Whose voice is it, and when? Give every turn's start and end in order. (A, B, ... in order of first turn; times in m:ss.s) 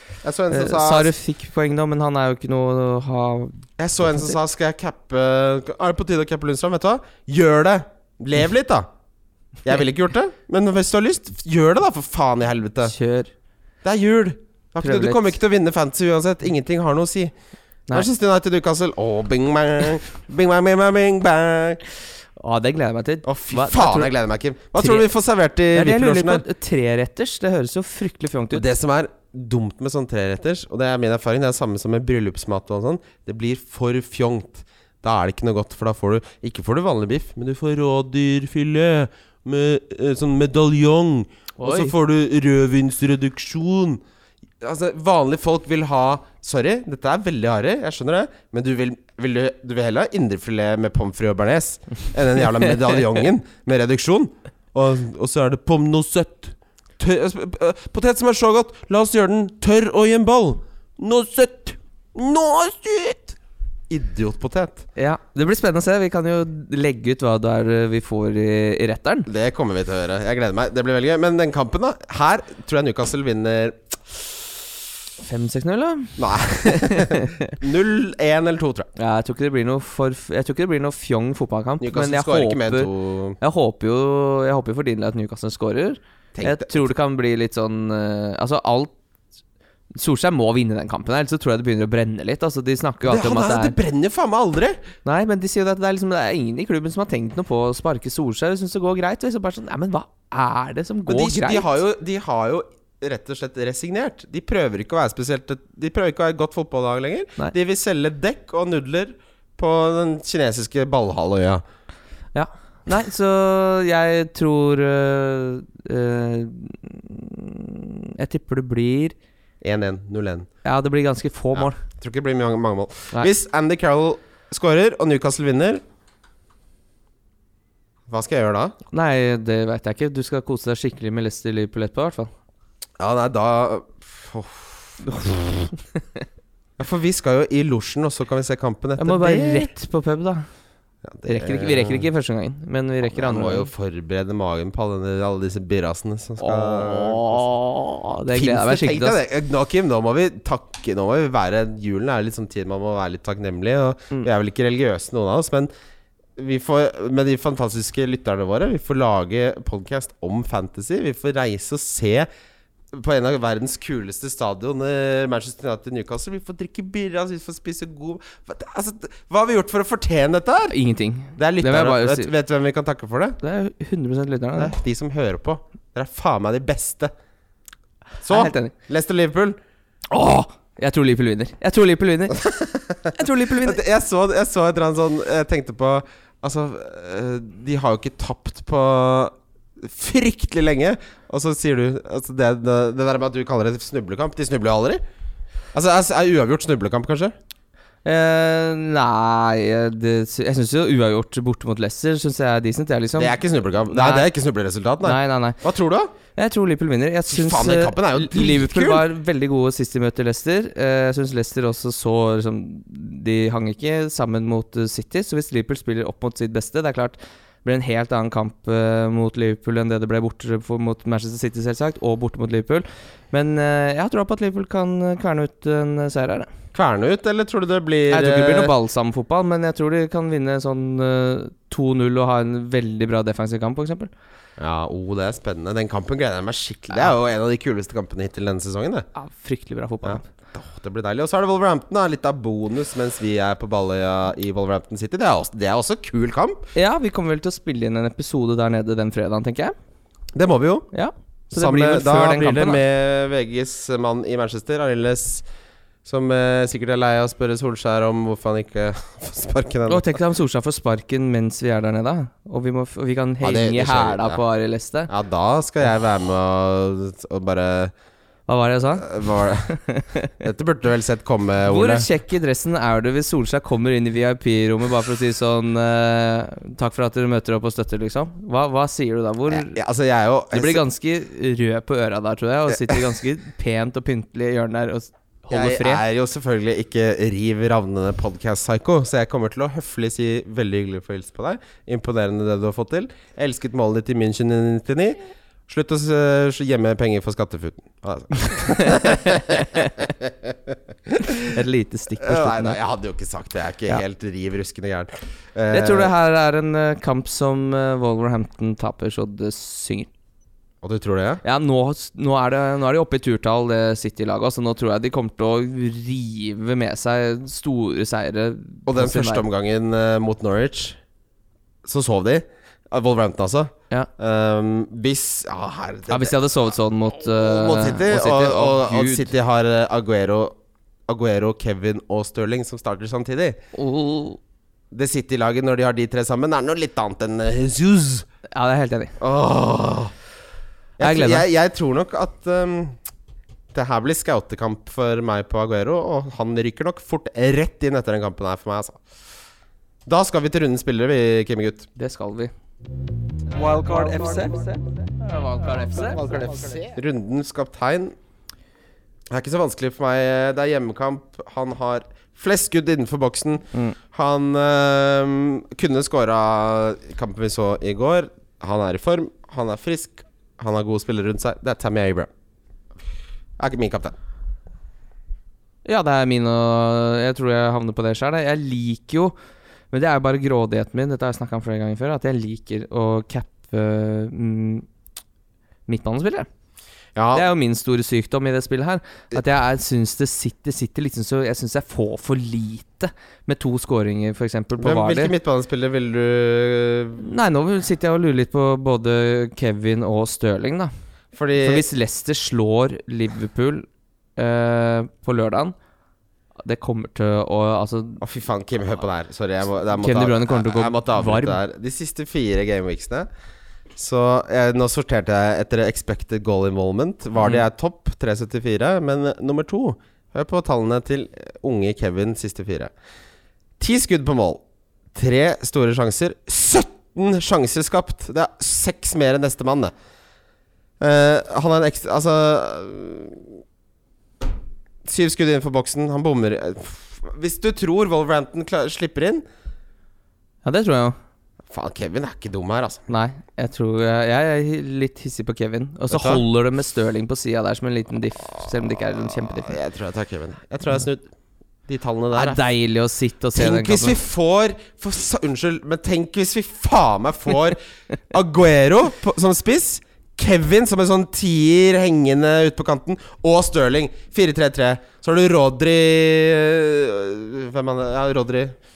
0:00.2-0:01.1 A
0:00.5-0:04.4 B
0:03.8-0:08.9 A
0:09.6-0:12.9 A
0:12.8-0:13.3 B
0:13.8-0:17.3 A
0:14.8-0:15.4 B
0:17.9-0:21.8 A
0:22.4-0:24.1 B
0:23.2-0:26.4 A
0:24.8-0:25.1 B
0:25.7-0:28.6 B
0:28.5-0:44.0 A
0:41.6-0:41.9 B
0:44.6-1:03.4 A
1:03.9-1:04.8 A
1:05.0-1:09.3 B
1:09.3-1:14.5 A
1:15.2-1:17.6 B
1:16.2-1:18.9 A
1:19.0-1:22.9 B
1:21.8-1:23.4 A
1:23.4-1:28.9 B
1:26.4-1:26.9 A
1:30.0-1:33.8 B
1:33.0-1:34.8 A
1:35.0-1:41.8 B
1:41.1-1:51.6 A
1:52.3-1:59.2 B
1:59.6-2:00.5 A
2:00.6-2:01.8 B
2:01.6-2:05.8 A
2:08.1-2:08.8 A
2:08.9-2:12.3 B
2:13.0-2:15.7 A
2:16.8-2:19.7 A
2:19.0-2:20.5 B
2:21.1-2:22.1 A
2:21.3-2:23.7 B
2:23.1-2:27.5 A
2:26.4-2:29.2 B
2:28.3-2:35.7 A
2:36.4-2:42.3 A
2:42.9-2:50.8 A
2:50.7-2:52.3 B
2:51.4-2:53.4 A
2:53.4-2:54.7 B
2:54.6-2:57.1 A
2:58.2-2:59.6 A
2:58.3-2:58.7 B
3:00.1-3:02.5 B
3:02.4-3:15.0 A
3:03.1-3:03.8 B
3:15.7-3:17.3 A
3:18.0-3:23.4 B
3:23.2-3:26.1 A
3:23.9-3:24.3 B
3:25.0-3:25.6 B
3:26.4-3:46.5 B
3:27.3-3:29.0 A
3:46.7-3:48.7 A
3:48.1-3:54.1 B
3:54.6-3:59.1 A
3:59.2-4:00.3 B
4:00.0-4:06.6 A
4:06.8-4:09.8 B
4:10.4-4:10.9 A
4:10.9-4:12.8 B
4:11.5-4:15.4 A
4:16.0-4:20.2 A
4:19.9-4:25.1 B
4:23.4-4:24.4 A
4:25.1-4:27.9 A
4:28.5-4:30.3 B
4:29.0-4:29.7 A
4:30.4-4:32.1 A
4:31.7-4:39.8 B
4:39.5-4:40.8 A
4:40.5-4:46.0 B
4:45.5-5:01.5 A
4:58.4-5:00.1 B
5:01.2-5:02.8 B
5:02.2-5:06.1 A
5:05.7-5:10.1 B
5:10.8-5:11.4 A
5:11.4-5:19.5 B
5:18.9-5:21.0 A
5:21.8-5:26.4 A
5:26.1-5:29.3 B
5:27.3-5:30.6 A
5:31.1-5:33.6 A
5:33.8-5:34.4 B
5:34.9-5:38.3 A
5:38.5-5:39.2 B
5:39.2-5:40.1 A
5:41.0-5:43.0 A
5:41.0-5:41.5 B
5:43.7-5:49.0 A
5:50.1-5:51.9 A
5:52.0-5:52.5 B
5:53.5-5:56.9 C
5:55.3-5:56.5 B
5:56.9-5:58.2 A
5:59.3-6:12.3 A
6:13.6-6:14.2 A
6:15.8-6:19.4 B
6:19.9-6:24.9 B
6:25.9-6:26.5 B
6:27.2-6:27.5 A
6:27.3-6:35.3 B
6:34.8-6:37.2 A
6:37.2-6:40.9 B
6:41.3-6:41.9 A
6:41.6-6:45.8 B
6:46.6-6:48.2 B
6:48.2-6:53.3 A
6:49.9-6:51.6 B
6:54.0-7:02.9 A
7:03.8-7:04.6 A
7:05.1-7:09.9 A
7:11.0-7:13.6 A
7:15.0-7:19.4 A
7:20.6-7:21.2 B
7:21.7-7:23.0 A
7:23.1-7:29.8 B
7:26.1-7:26.4 A
7:29.4-7:31.3 A
7:31.9-7:32.6 A
7:32.3-7:34.2 B
7:33.6-7:37.8 A
7:38.3-7:48.8 A